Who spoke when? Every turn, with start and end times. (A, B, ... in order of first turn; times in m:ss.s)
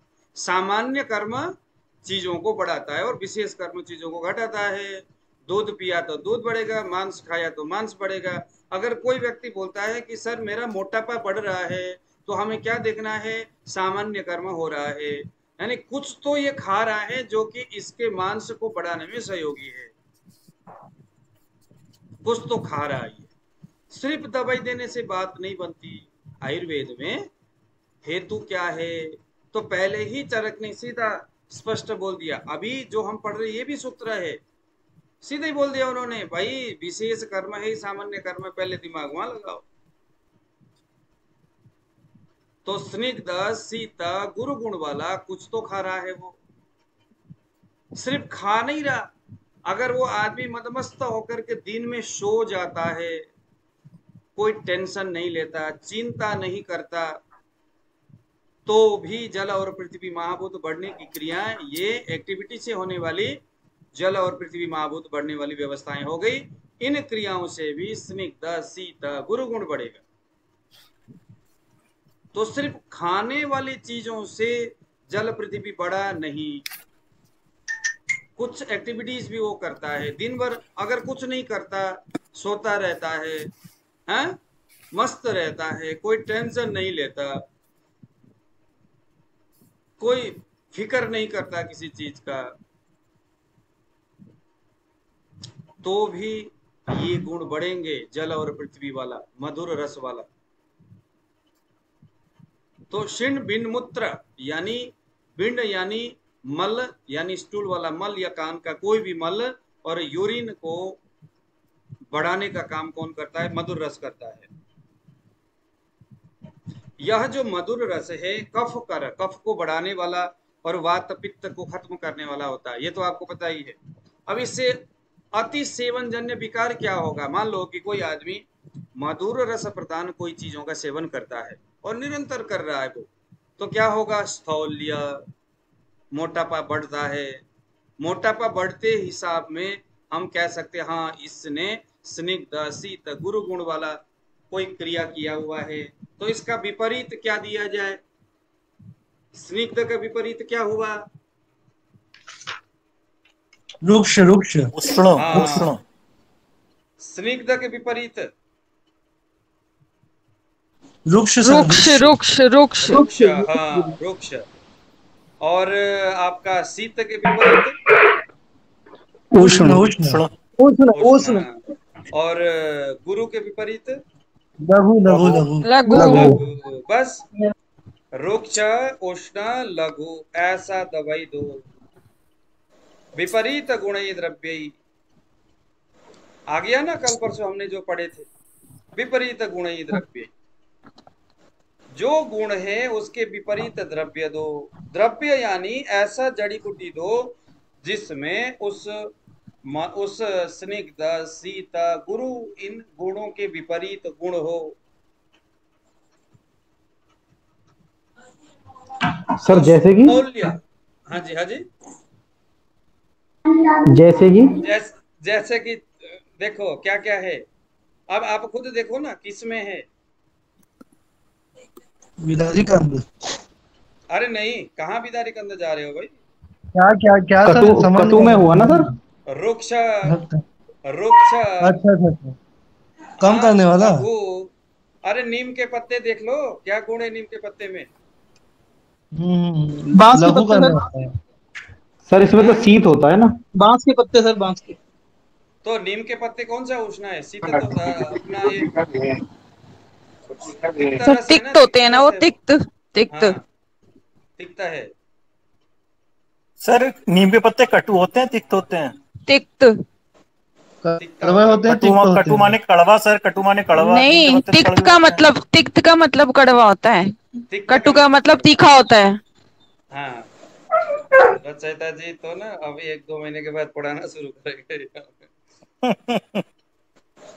0:00.4-0:19.9 A
0:22.2-0:23.3 A
0:23.9-0:27.3 A
0:28.0-0:34.4 A
0:35.2-0:39.6 A
0:42.6-0:46.4 A
0:48.0-0:49.0 A
0:49.7-0:53.2 A
0:54.4-0:57.1 A
0:58.6-1:03.4 A
1:03.9-1:10.0 A
1:12.3-1:16.6 A
1:18.4-1:23.5 A
1:24.1-1:24.4 A
1:24.9-1:27.4 A
1:30.0-1:32.5 A
1:35.8-1:40.3 A
1:42.9-1:51.0 A
1:52.1-1:54.5 A
1:57.0-2:03.8 A
2:04.3-2:04.8 A
2:05.3-2:08.4 A
2:09.0-2:15.2 A
2:16.1-2:17.4 A
2:18.0-2:24.0 A
2:24.5-2:28.0 A
2:29.3-2:31.0 A
2:33.8-2:34.7 B
2:34.8-2:35.8 C
2:35.2-2:35.7 A
2:37.0-2:38.3 A
2:41.1-2:42.2 B
2:41.4-2:43.0 D
2:42.8-2:44.4 A
2:42.9-2:43.9 B
2:45.4-2:47.8 A
2:49.3-2:49.9 E
2:49.4-2:51.3 B
2:50.0-2:50.3 C
2:50.9-2:51.6 A
2:52.1-2:54.0 A
2:54.6-2:56.4 B
2:55.6-2:56.2 D
2:56.0-2:56.3 E
2:56.0-2:57.2 A
2:58.1-3:01.6 A
3:03.2-3:04.7 A
3:06.5-3:08.3 A
3:09.0-3:10.3 A
3:11.9-3:19.1 A
3:19.7-3:24.8 A
3:29.4-3:30.2 E
3:29.5-3:31.6 A
3:33.9-3:34.6 E
3:34.6-3:37.4 A
3:38.1-3:39.8 A
3:42.2-3:43.0 B
3:44.1-3:46.1 A
3:46.7-3:48.9 B
3:47.4-3:48.9 E
3:49.3-3:50.1 A
3:50.1-3:50.4 B
3:50.9-3:51.8 A
3:51.6-3:52.4 B
3:53.2-3:54.0 B
3:53.2-3:54.5 A
3:55.0-3:57.9 A
3:59.2-4:01.1 B
3:59.9-4:00.8 F
4:02.1-4:03.3 E
4:02.4-4:02.7 A
4:03.6-4:04.8 F
4:05.6-4:08.7 A
4:10.9-4:12.3 A
4:11.0-4:13.4 D
4:13.1-4:13.4 A
4:14.4-4:14.9 A
4:16.6-4:18.9 C
4:19.3-4:19.8 D
4:20.8-4:22.5 B
4:21.0-4:21.7 A
4:21.7-4:25.2 C
4:23.8-4:27.1 D
4:27.5-4:28.5 A
4:27.7-4:29.2 D
4:29.9-4:30.3 A
4:31.4-4:35.2 A
4:35.8-4:36.4 C